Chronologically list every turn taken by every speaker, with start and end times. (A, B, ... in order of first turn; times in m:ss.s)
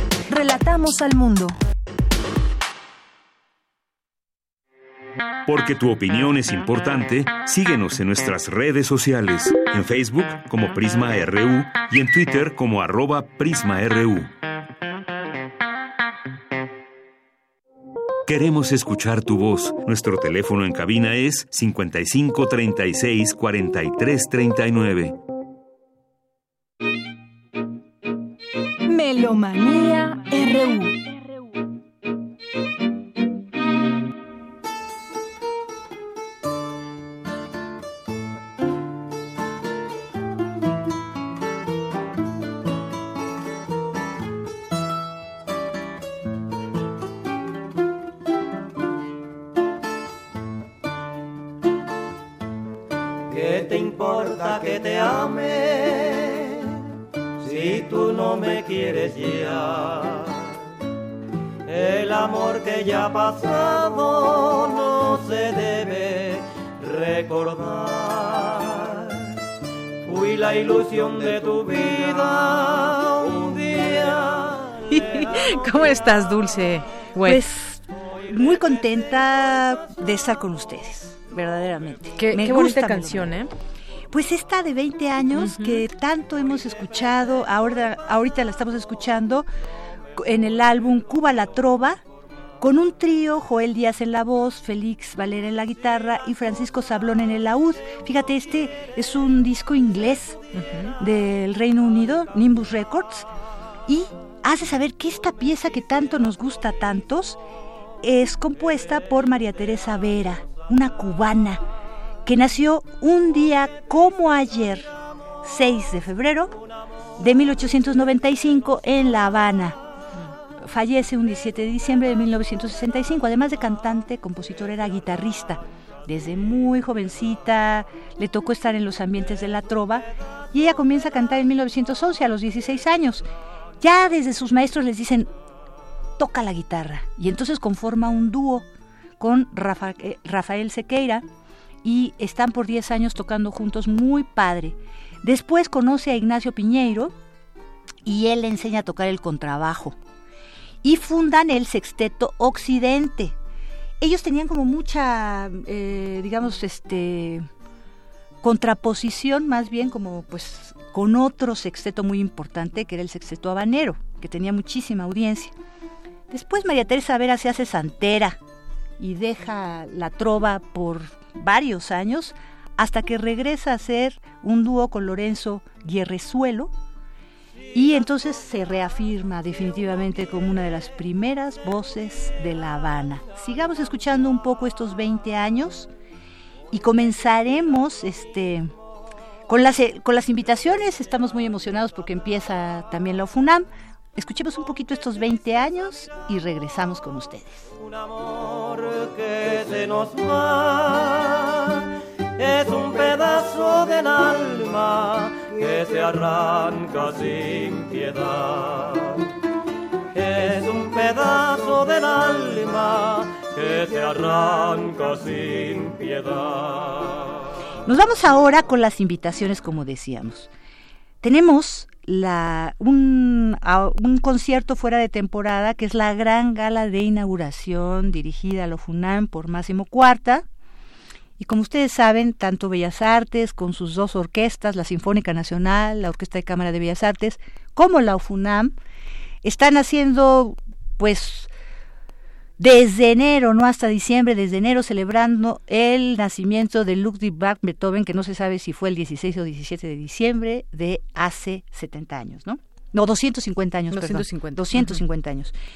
0:00.3-0:01.5 A
0:05.4-0:14.3 B
0:18.2-0:25.2 B
0:28.9-0:31.0 A
0:53.3-0:56.6 C
0:57.4-1:00.4 C
1:01.6-1:09.1 C
1:10.0-1:14.6 C
1:14.9-1:17.4 D
1:17.2-1:23.3 E
1:22.2-1:23.5 D
1:24.1-1:29.4 E
1:25.3-1:25.8 D
1:30.2-1:32.0 E
1:32.6-1:40.4 E
1:40.6-1:40.9 D
1:41.0-1:43.3 E
1:43.9-1:47.4 E
1:48.0-1:51.6 E
1:52.2-1:56.6 E
1:57.2-1:59.8 E
2:00.6-2:13.3 E
2:13.8-2:15.3 E
2:16.2-2:18.6 E
2:19.2-2:21.2 E
2:21.8-2:27.1 E
2:28.0-2:30.0 E
2:30.8-2:33.3 E
2:34.0-2:37.5 E
2:38.4-2:45.5 E
2:46.3-2:48.4 E
2:49.0-2:56.7 E
2:57.7-3:05.9 E
3:06.7-3:08.7 E
3:09.5-3:17.7 E
3:18.4-3:21.8 C
3:22.4-3:29.2 C
3:30.1-3:37.1 C
3:37.8-3:40.5 E
3:41.2-3:50.4 E
3:51.4-3:58.7 E
3:59.4-4:01.5 E
4:02.6-4:15.5 E
4:13.9-4:15.0 D